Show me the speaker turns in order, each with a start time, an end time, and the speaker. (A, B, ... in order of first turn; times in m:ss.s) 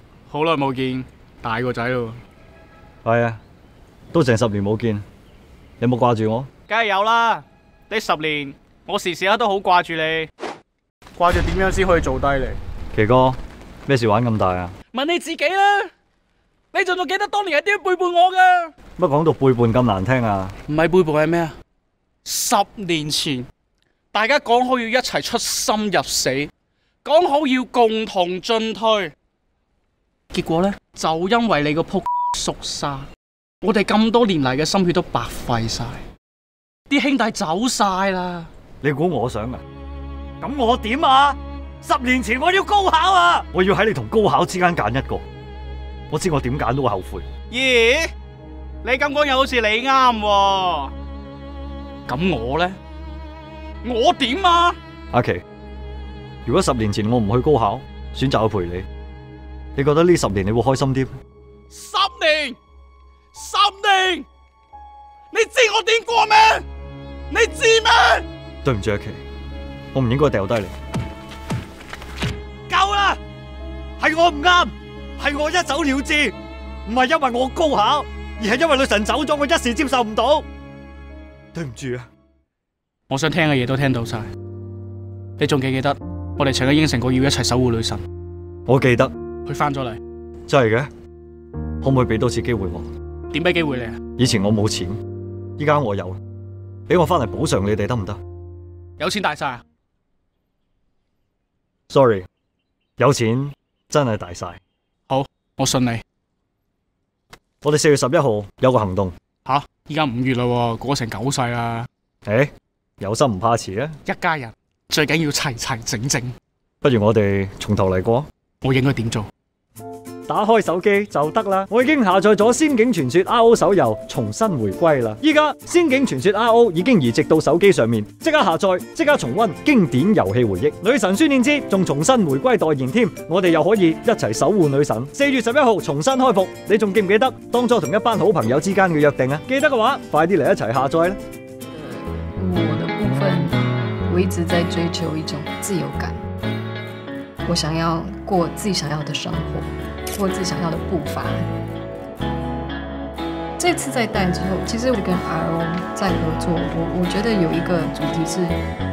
0:00.3-0:02.2 A
0:03.0-0:03.4 B
0:04.1-0:05.0 B
0:05.8-0:06.5 B
0:06.7-0:10.3 A
0:11.2-0:12.6 A
0:12.9-0:14.7 B
0:14.9-0:15.9 A
0:16.7-0:18.7 A
0:19.0-0:20.6 B
0:20.7-0:21.5 A
0:22.2-0:23.5 A
0:24.1-0:26.5 A
0:27.0-0:29.1 A
0:30.3-0:33.1 A
0:33.6-0:36.0 A
0:36.9-0:38.5 A
0:38.8-0:39.6 B
0:40.4-0:45.2 B
0:46.1-0:47.3 B
0:47.5-0:48.1 A
0:48.8-0:50.9 A
0:52.1-0:52.8 A
0:53.8-0:54.8 A
0:55.1-0:55.4 B
0:56.4-0:58.9 B
0:59.7-1:01.1 B
1:01.7-1:02.6 A
1:03.3-1:04.2 A
1:05.3-1:06.6 A
1:07.3-1:08.2 A
1:08.6-1:09.2 B
1:09.9-1:10.7 B
1:12.7-1:13.2 B
1:14.0-1:16.3 B
1:16.8-1:20.4 B
1:21.5-1:22.1 B
1:23.1-1:24.3 A
1:25.4-1:28.0 A
1:28.7-1:29.1 B
1:29.4-1:30.0 A
1:30.5-1:30.9 B
1:31.8-1:32.9 B
1:33.3-1:34.0 A
1:34.2-1:35.0 B
1:35.6-1:36.2 B
1:36.9-1:38.2 B
1:39.0-1:39.6 A
1:41.9-1:42.3 B
1:43.0-1:44.6 B
1:45.1-1:46.0 A
1:47.6-1:49.1 B
1:49.4-1:51.9 A
1:52.2-1:53.9 B
1:54.0-1:56.3 A
1:56.8-1:58.3 B
1:58.6-1:59.3 A
2:00.3-2:21.2 B
2:21.7-2:26.2 C
2:27.4-2:31.5 C
2:33.6-2:38.6 C